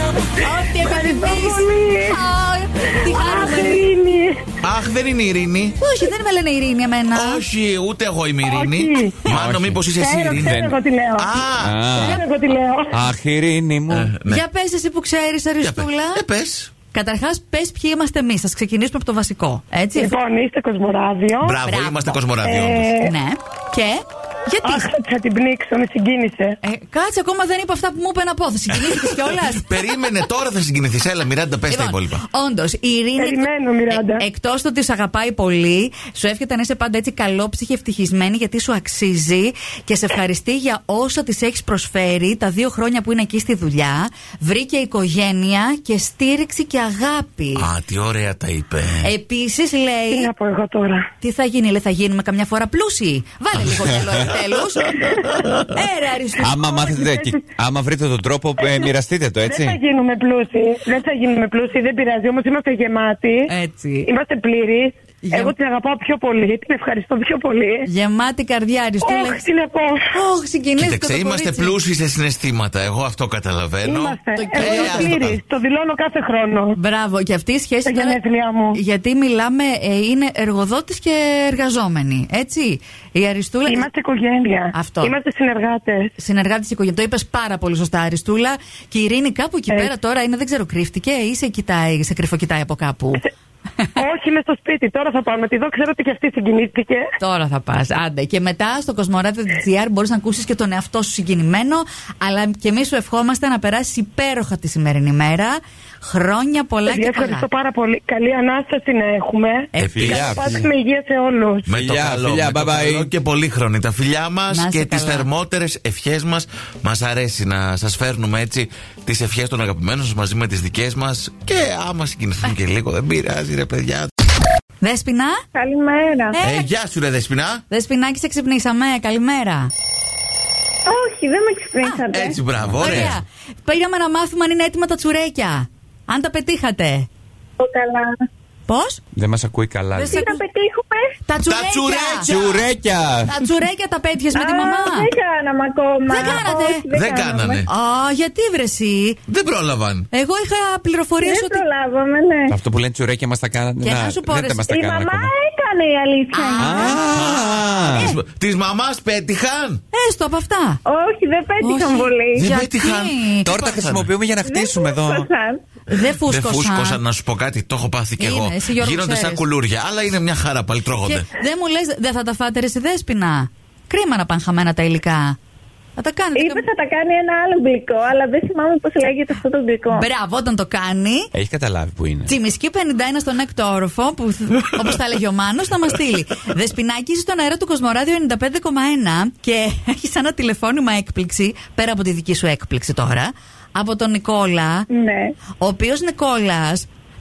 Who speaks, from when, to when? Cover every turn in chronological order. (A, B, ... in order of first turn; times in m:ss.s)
0:00.4-0:03.8 A
0:00.8-0:02.2 B
0:03.0-0:04.5 B
0:04.6-0:05.8 C
0:05.8-0:07.4 A
0:07.2-0:10.6 C
0:08.4-0:09.2 B
0:09.3-0:10.7 D
0:10.0-0:11.4 B
0:11.2-0:12.1 C
0:11.6-0:12.2 D
0:11.9-0:12.9 B
0:12.9-0:14.1 D
0:13.9-0:14.4 C
0:14.3-0:16.2 A
0:15.6-0:16.7 C
0:16.9-0:20.1 A
0:20.0-0:21.6 B
0:21.4-0:22.9 C
0:21.6-0:22.2 A
0:22.4-0:23.1 B
0:23.0-0:24.9 A
0:24.6-0:26.6 B
0:26.6-0:29.7 A
0:28.9-0:32.2 C
0:31.7-0:47.7 A
0:33.2-0:34.2 B
0:47.6-0:49.1 C
0:49.0-0:50.3 A
0:50.1-0:51.0 B
0:51.2-0:57.1 A
0:54.2-0:55.7 C
0:56.4-0:59.8 D
0:57.0-0:57.3 B
0:59.4-1:03.5 B
1:03.5-1:04.1 A
1:04.1-1:07.9 B
1:05.2-1:05.5 A
1:07.9-1:09.4 A
1:09.0-1:10.0 B
1:10.1-1:11.8 A
1:10.8-1:15.4 C
1:13.8-1:16.8 B
1:14.4-1:15.1 A
1:16.8-1:18.2 A
1:17.9-1:18.8 B
1:18.7-1:23.9 A
1:23.7-1:26.1 B
1:24.7-1:25.1 A
1:26.2-1:33.2 A
1:34.0-1:37.1 B
1:37.2-1:47.5 A
1:46.9-1:51.7 B
1:49.7-1:50.6 A
1:49.8-1:50.3 C
1:49.8-1:50.6 D
1:51.7-2:04.1 C
1:51.7-1:53.1 D
1:54.5-1:55.3 A
2:04.8-2:05.4 A
2:05.6-2:06.4 E
2:06.3-2:06.7 A
2:06.4-2:07.6 C
2:07.7-2:09.7 A
2:10.9-2:12.4 E
2:12.1-2:13.2 C
2:12.8-2:17.1 A
2:12.8-2:13.1 D
2:17.6-2:18.1 E
2:18.7-2:19.0 A
2:19.2-2:20.2 D
2:19.9-2:20.4 A
2:20.1-2:21.2 E
2:21.2-2:22.3 A
2:21.4-2:22.6 C
2:22.2-2:23.3 D
2:23.3-2:25.1 A
2:24.3-2:27.6 E
2:26.1-2:26.9 A
2:26.9-2:27.7 C
2:27.7-2:29.2 A
2:29.3-2:30.1 C
2:30.1-2:31.6 A
2:31.2-2:32.6 E
2:32.5-2:35.3 D
2:33.8-2:34.7 A
2:34.7-2:37.0 E
2:36.3-2:37.1 A
2:36.6-2:38.1 D
2:37.1-2:39.8 C
2:39.9-2:40.8 A
2:40.9-2:42.5 E
2:41.6-2:43.5 A
2:42.3-2:44.1 C
2:43.4-2:45.3 D
2:44.4-2:45.6 E
2:45.9-2:47.0 A
2:46.2-2:51.3 C
2:48.2-2:49.4 A
2:51.0-2:55.4 A
2:56.0-2:56.6 A
2:56.4-3:00.1 E
2:59.9-3:01.3 A
3:01.3-3:02.3 D
3:02.3-3:14.9 A
3:14.9-3:15.3 E
3:15.6-3:16.9 A